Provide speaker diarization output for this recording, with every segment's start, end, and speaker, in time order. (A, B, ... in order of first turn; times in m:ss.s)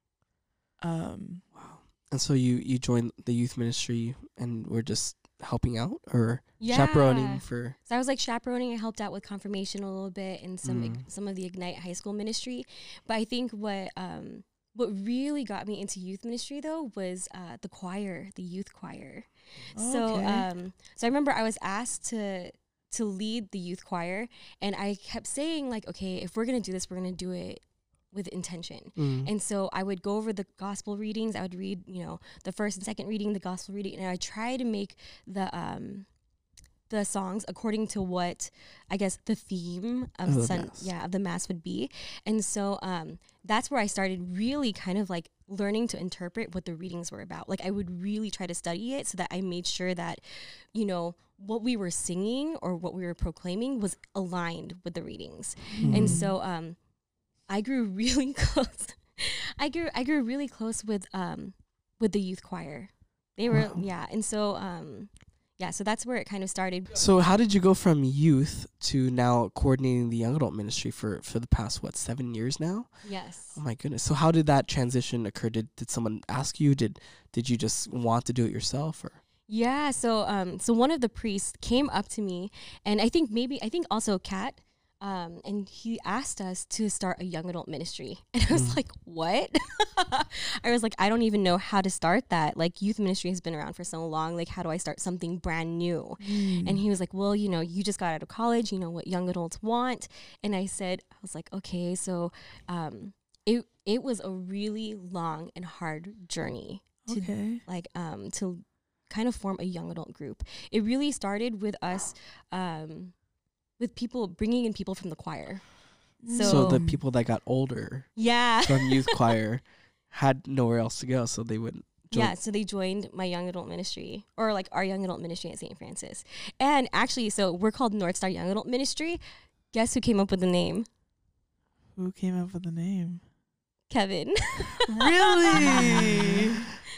0:00.8-0:01.4 A
0:01.5-0:07.8 B
0:06.6-0:36.1 C
0:10.6-0:11.0 B
0:19.8-0:20.5 A
0:29.0-0:29.3 B
0:36.9-0:50.2 C
0:40.3-0:40.9 B
0:50.7-0:56.8 C
0:55.7-0:56.3 A
0:55.8-0:56.2 B
0:57.5-1:07.0 C
1:03.5-1:03.8 A
1:06.9-1:13.0 B
1:13.0-1:13.6 C
1:13.5-1:19.2 B
1:19.5-1:53.1 C
1:28.5-1:28.8 B
1:36.2-1:36.8 A
1:47.1-1:47.6 A
1:53.8-1:55.6 C
1:56.2-1:57.0 A
1:56.2-1:56.8 C
1:56.4-2:02.3 B
1:58.2-1:59.4 C
2:02.1-2:09.2 C
2:09.7-2:10.9 C
2:12.0-2:13.2 A
2:13.9-2:16.4 C
2:14.9-2:16.6 A
2:15.6-2:16.6 B